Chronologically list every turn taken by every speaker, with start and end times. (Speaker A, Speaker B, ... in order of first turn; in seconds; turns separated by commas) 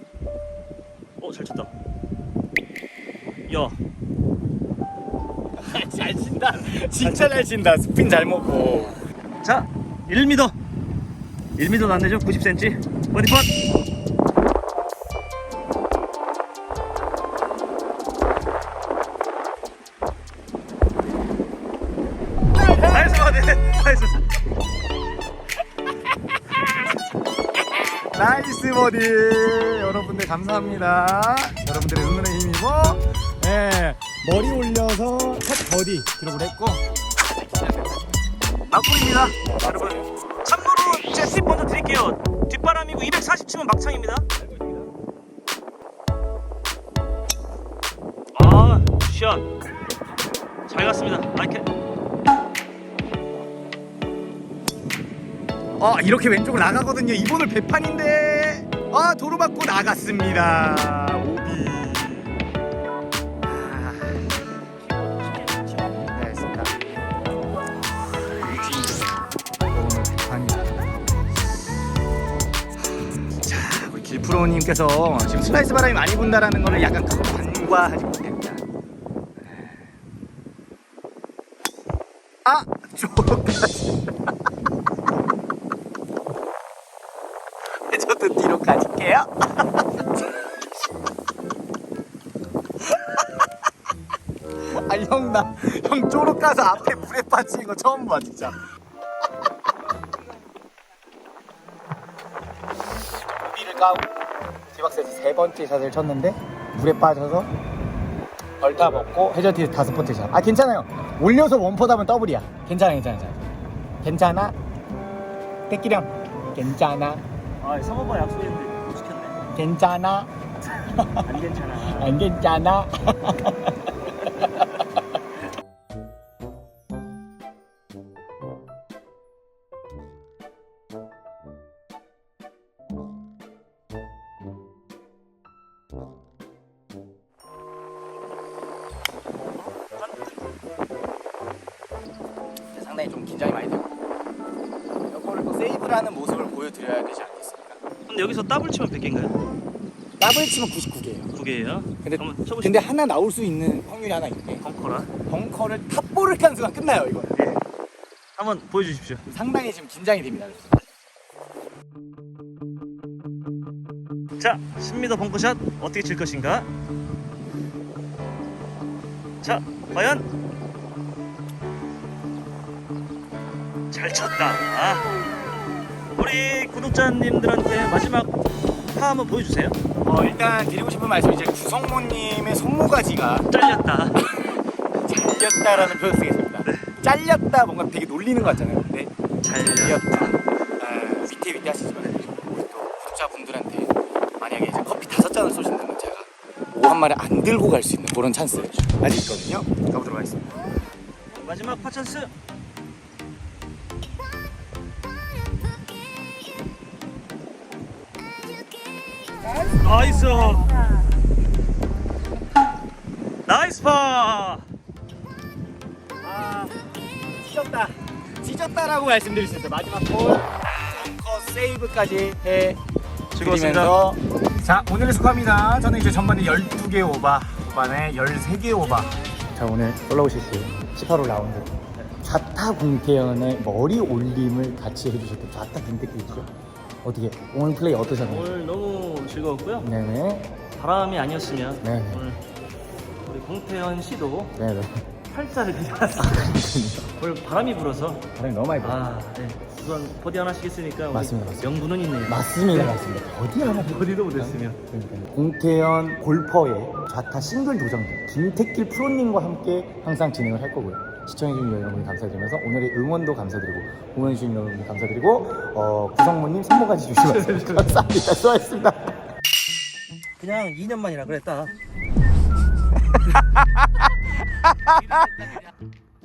Speaker A: 1.2-1.7, Speaker A: 3.5-3.8, Speaker B: 5.5-9.0, Speaker A: 7.0-7.4, Speaker A: 9.4-10.6, Speaker A: 11.6-13.6, Speaker A: 22.8-24.2, Speaker B: 28.0-36.9, Speaker B: 37.5-37.8, Speaker A: 38.7-44.3, Speaker B: 39.4-40.1, Speaker A: 48.3-49.5, Speaker A: 50.7-51.7, Speaker B: 55.8-62.4, Speaker B: 63.5-64.4, Speaker A: 64.9-65.9, Speaker B: 66.1-66.8, Speaker B: 68.2-71.0, Speaker B: 73.3-78.7, Speaker B: 82.5-84.0, Speaker B: 87.8-90.6, Speaker B: 92.9-93.2, Speaker B: 94.7-98.6, Speaker B: 103.4-104.1, Speaker B: 104.7-107.5, Speaker B: 108.6-113.5, Speaker B: 114.0-114.5, Speaker B: 115.7-117.2, Speaker A: 117.6-119.4, Speaker B: 119.5-120.3, Speaker B: 120.9-121.3, Speaker A: 121.1-122.2, Speaker B: 121.8-124.6, Speaker A: 139.6-140.4, Speaker B: 142.7-144.1, Speaker B: 145.1-147.8, Speaker A: 148.1-149.4, Speaker B: 150.2-151.3, Speaker A: 151.3-152.9, Speaker B: 152.0-154.6, Speaker A: 154.6-155.1, Speaker B: 155.3-157.4, Speaker A: 157.3-157.6, Speaker A: 158.4-159.2, Speaker B: 159.3-160.7, Speaker A: 164.4-166.7, Speaker A: 169.4-170.3, Speaker A: 173.9-175.2, Speaker A: 176.1-178.4, Speaker A: 178.9-179.8, Speaker B: 180.0-183.5, Speaker A: 183.4-184.3, Speaker B: 184.4-200.5, Speaker A: 189.4-190.3, Speaker A: 198.5-198.9, Speaker A: 201.3-202.3, Speaker A: 209.7-211.0, Speaker A: 213.5-214.7, Speaker B: 216.2-216.8, Speaker B: 217.3-222.8, Speaker A: 223.3-224.0, Speaker B: 223.4-236.5, Speaker B: 237.0-238.5, Speaker A: 238.2-239.9, Speaker B: 239.8-240.5, Speaker A: 240.8-242.4, Speaker B: 241.8-242.3, Speaker A: 243.2-244.6, Speaker B: 244.6-245.1, Speaker A: 245.3-246.5, Speaker B: 246.2-247.1, Speaker A: 247.2-248.3, Speaker B: 248.3-249.1, Speaker A: 248.8-253.0, Speaker B: 251.1-251.7, Speaker B: 252.3-269.2, Speaker A: 253.6-254.8, Speaker A: 270.4-271.8, Speaker B: 273.4-273.7, Speaker B: 274.6-275.2